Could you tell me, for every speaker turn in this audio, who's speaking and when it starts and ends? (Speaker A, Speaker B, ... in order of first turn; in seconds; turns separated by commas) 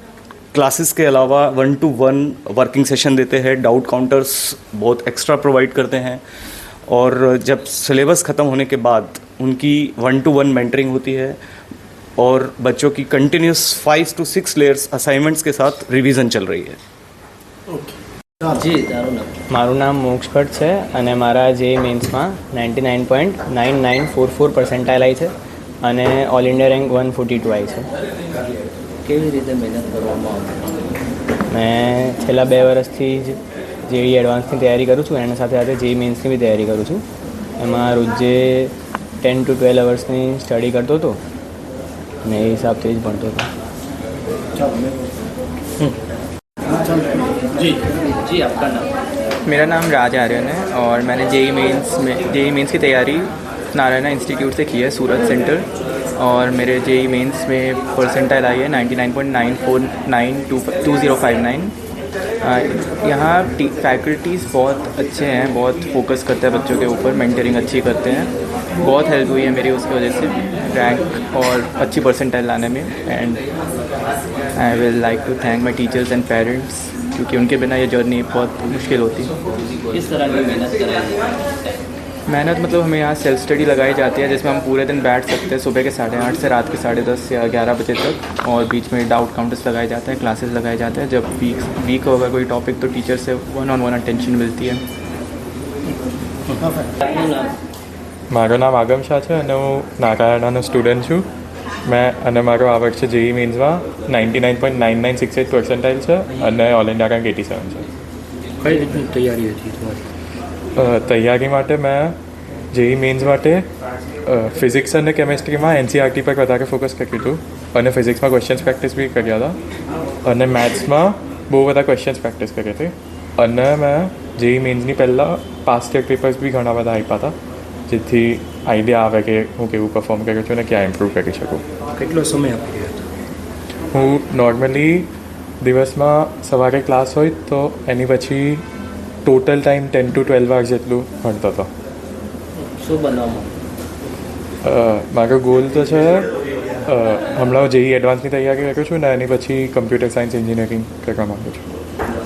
Speaker A: 0.5-6.2, Speaker A: 6.9-11.4, Speaker A: 12.2-16.8, Speaker B: 18.5-19.3, Speaker C: 19.5-27.9, Speaker B: 29.0-30.7, Speaker C: 31.5-37.0, Speaker C: 37.6-38.7, Speaker C: 39.2-41.2, Speaker C: 42.2-43.5, Speaker B: 48.0-48.9, Speaker D: 49.5-61.7, Speaker D: 62.4-73.4, Speaker D: 74.5-79.3, Speaker B: 79.9-81.5, Speaker D: 82.3-94.8, Speaker B: 97.0-97.5, Speaker E: 98.3-101.3, Speaker E: 101.8-107.9, Speaker F: 108.6-110.0, Speaker E: 110.8-112.2, Speaker E: 112.7-113.7, Speaker E: 114.3-119.6, Speaker E: 120.2-127.3, Speaker E: 127.9-131.6, Speaker F: 131.9-133.0, Speaker E: 133.9-135.1, Speaker E: 135.6-138.6, Speaker E: 139.2-141.7, Speaker B: 142.7-143.5, Speaker E: 144.6-146.3, Speaker E: 146.9-151.6